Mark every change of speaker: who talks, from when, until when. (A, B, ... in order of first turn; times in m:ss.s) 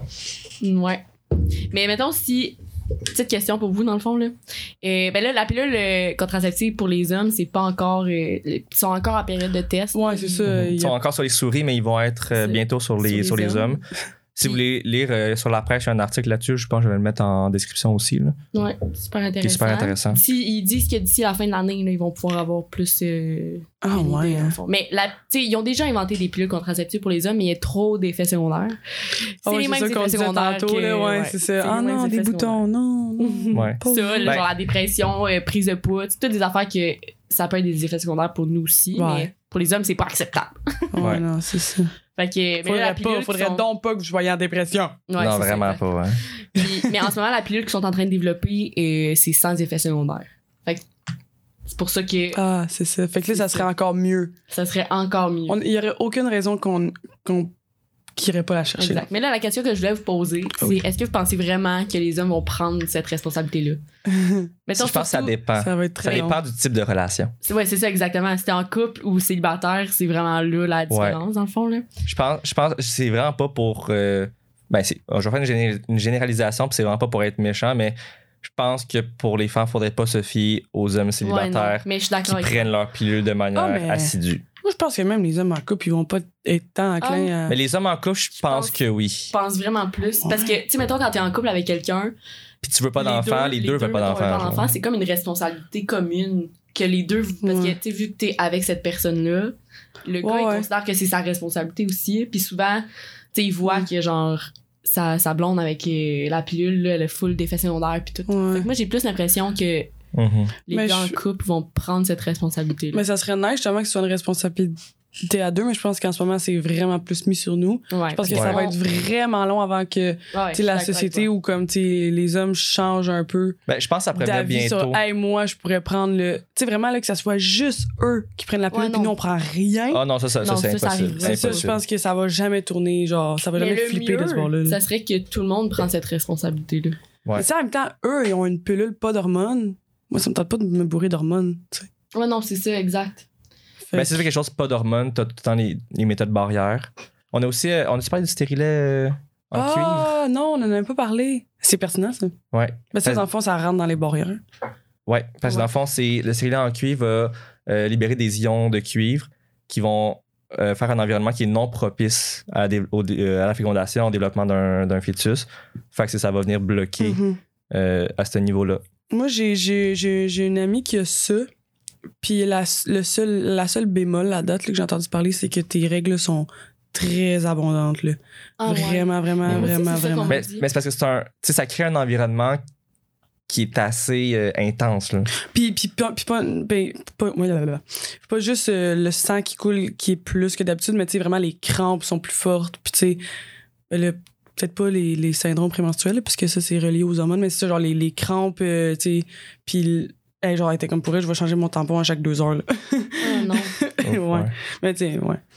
0:00.6-0:10.5 A
0:09.9-0:11.0 B
0:10.5-0:13.8 C
0:12.3-0:13.8 A
0:14.4-0:18.4 C
0:18.5-0:28.8 A
0:19.4-0:20.2 C
0:23.8-0:24.6 B
0:29.4-0:32.6 A
0:29.4-0:34.4 B
0:33.2-0:41.0 A
0:33.5-0:34.5 C
0:38.9-0:39.3 B
0:40.9-0:41.9 B
0:42.2-0:43.6 A
0:42.6-0:45.0 B
0:45.1-0:45.8 A
0:45.2-0:46.2 C
0:46.4-0:50.8 A
0:51.6-0:52.4 A
0:52.3-0:54.3 B
0:53.3-0:53.6 A
0:54.5-0:55.6 A
0:55.5-0:57.5 B
0:58.2-0:59.0 B
0:58.8-1:03.8 A
1:04.1-1:04.5 B
1:04.7-1:05.3 A
1:04.8-1:07.3 C
1:05.6-1:06.4 B
1:06.0-1:06.3 A
1:07.4-1:11.9 A
1:10.9-1:11.2 C
1:12.0-1:24.4 C
1:21.2-1:22.7 A
1:23.5-1:27.6 B
1:27.0-1:27.3 A
1:27.5-1:29.3 C
1:28.4-1:28.8 A
1:29.3-1:32.1 A
1:32.6-1:34.7 C
1:33.0-1:49.9 A
1:37.4-1:37.8 B
1:40.2-1:40.7 B
1:48.3-1:48.7 B
1:50.1-1:50.5 C
1:50.7-1:53.0 A
1:50.7-1:51.2 B
1:52.9-2:03.6 B
1:57.9-1:58.8 A
1:58.3-1:58.6 C
2:00.3-2:01.3 A
2:03.7-2:05.0 C
2:04.1-2:10.0 B
2:08.7-2:09.1 A
2:09.9-2:11.8 C
2:10.4-2:11.7 A
2:11.2-2:14.8 B
2:13.5-2:17.0 A
2:17.3-2:21.9 B
2:22.1-2:23.2 A
2:23.9-2:24.2 B
2:23.9-2:30.1 C
2:29.5-2:32.4 B
2:32.5-2:33.2 C
2:32.9-2:34.4 B
2:35.1-2:47.2 C
2:47.0-2:47.4 B
2:47.7-2:48.8 C
2:49.1-2:51.5 B
2:52.2-3:00.4 B
2:58.6-3:00.7 A
3:00.3-3:02.6 C
3:03.5-3:05.3 C
3:05.4-3:13.2 B
3:13.9-3:25.4 B
3:23.2-3:23.7 A
3:24.0-3:24.5 C